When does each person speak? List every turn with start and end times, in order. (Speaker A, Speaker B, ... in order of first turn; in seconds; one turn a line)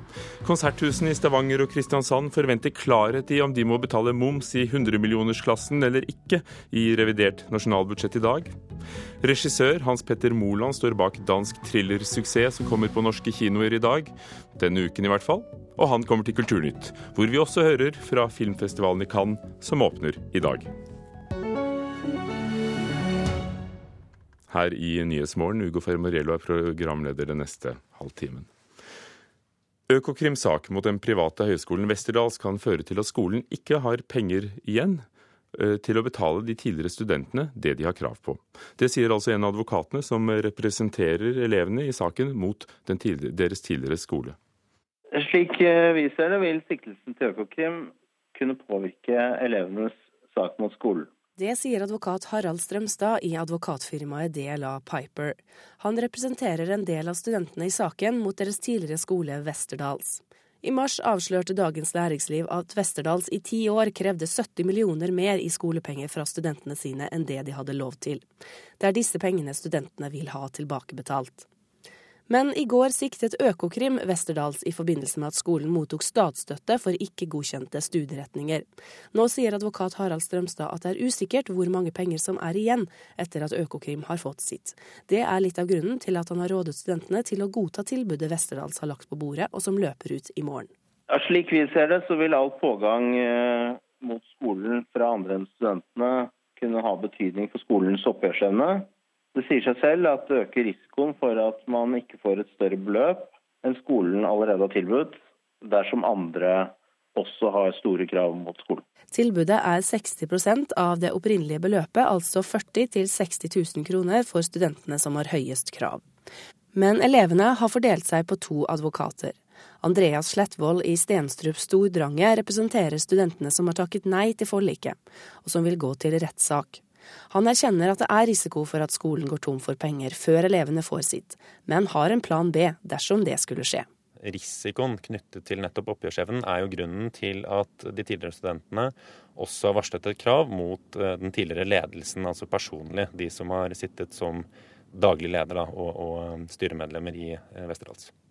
Speaker A: 0.4-8.5
Speaker A: 9.2-20.7
Speaker A: 24.5-28.5
Speaker A: 29.9-44.4
Speaker B: 45.1-51.1
Speaker C: 51.4-68.2
Speaker C: 68.8-71.5
Speaker C: 72.3-90.7
Speaker B: 91.1-108.8
Speaker C: 109.1-116.0
Speaker C: 116.7-133.8
Speaker D: 134.2-148.1